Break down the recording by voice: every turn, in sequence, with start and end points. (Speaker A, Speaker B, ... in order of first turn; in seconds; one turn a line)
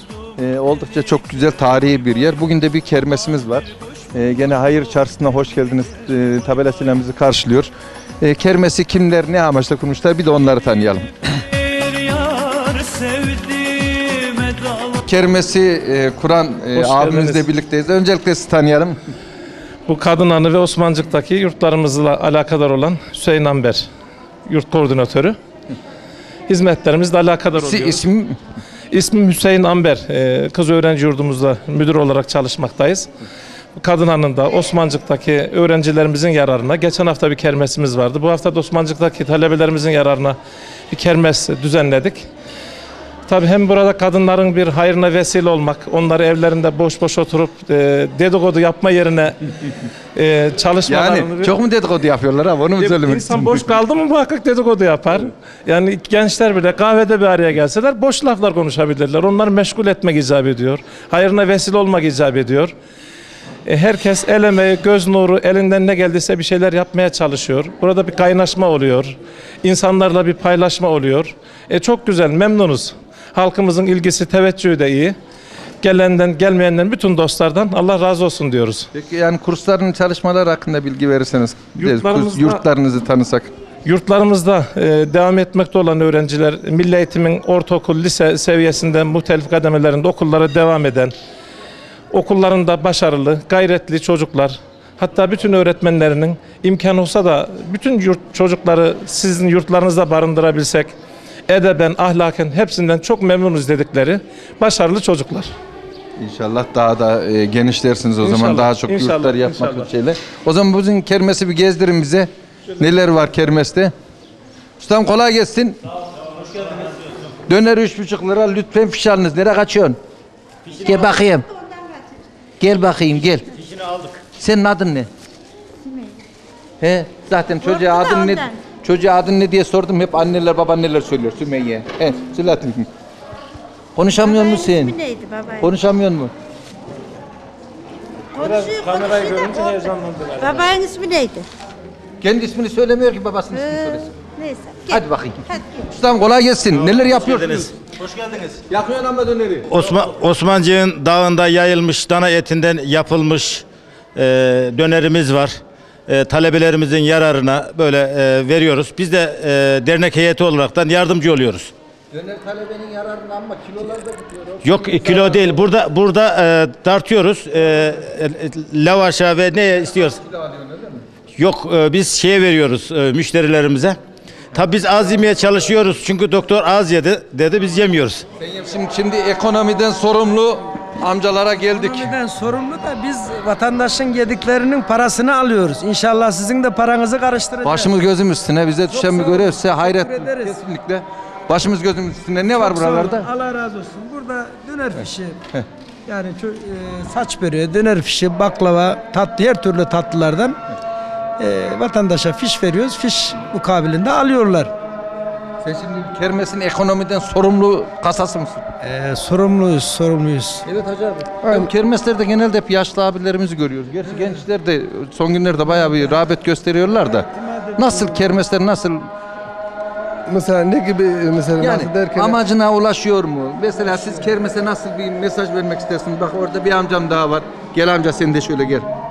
Speaker A: 0.4-11.1
Speaker B: 12.3-14.6
Speaker A: 15.0-19.0
Speaker C: 16.8-17.5
Speaker C: 19.9-23.9
Speaker C: 24.5-25.4
Speaker C: 26.5-28.0
Speaker A: 27.6-28.4
Speaker C: 28.9-33.1
Speaker C: 33.8-40.4
Speaker C: 40.9-42.3
Speaker C: 43.3-49.5
Speaker C: 50.1-51.5
Speaker A: 50.9-53.6
Speaker C: 52.8-62.7
Speaker C: 63.7-75.2
Speaker C: 75.8-78.9
Speaker A: 78.9-83.5
Speaker C: 81.8-82.6
Speaker C: 83.8-91.1
Speaker C: 92.1-100.9
Speaker C: 101.5-105.5
Speaker A: 106.2-113.9
Speaker C: 108.2-109.9
Speaker A: 114.8-115.8
Speaker A: 117.5-120.0
Speaker A: 120.8-121.5
Speaker A: 122.6-123.5
Speaker A: 124.4-125.1
Speaker A: 126.8-132.9
Speaker B: 127.9-128.4
Speaker A: 134.0-135.0
Speaker B: 134.4-135.6
Speaker A: 135.6-136.3
Speaker C: 138.4-140.7
Speaker B: 138.5-139.4
Speaker B: 140.4-141.5
Speaker A: 142.2-144.1
Speaker B: 144.4-144.9
Speaker A: 144.9-147.7
Speaker D: 147.2-147.7
Speaker A: 148.7-149.8
Speaker D: 149.7-161.7
Speaker A: 162.1-165.6
Speaker D: 164.6-170.2
Speaker A: 170.2-171.0
Speaker D: 171.3-174.0
Speaker D: 174.5-178.2
Speaker A: 178.4-182.2
Speaker E: 181.7-187.9
Speaker A: 187.6-193.3
Speaker E: 188.9-190.5
Speaker E: 192.6-195.4
Speaker E: 196.1-200.6
Speaker E: 201.4-204.7
Speaker A: 205.6-208.6
Speaker E: 208.8-210.6
Speaker A: 210.7-219.1
Speaker F: 211.4-211.7
Speaker F: 220.3-222.4
Speaker A: 221.6-228.9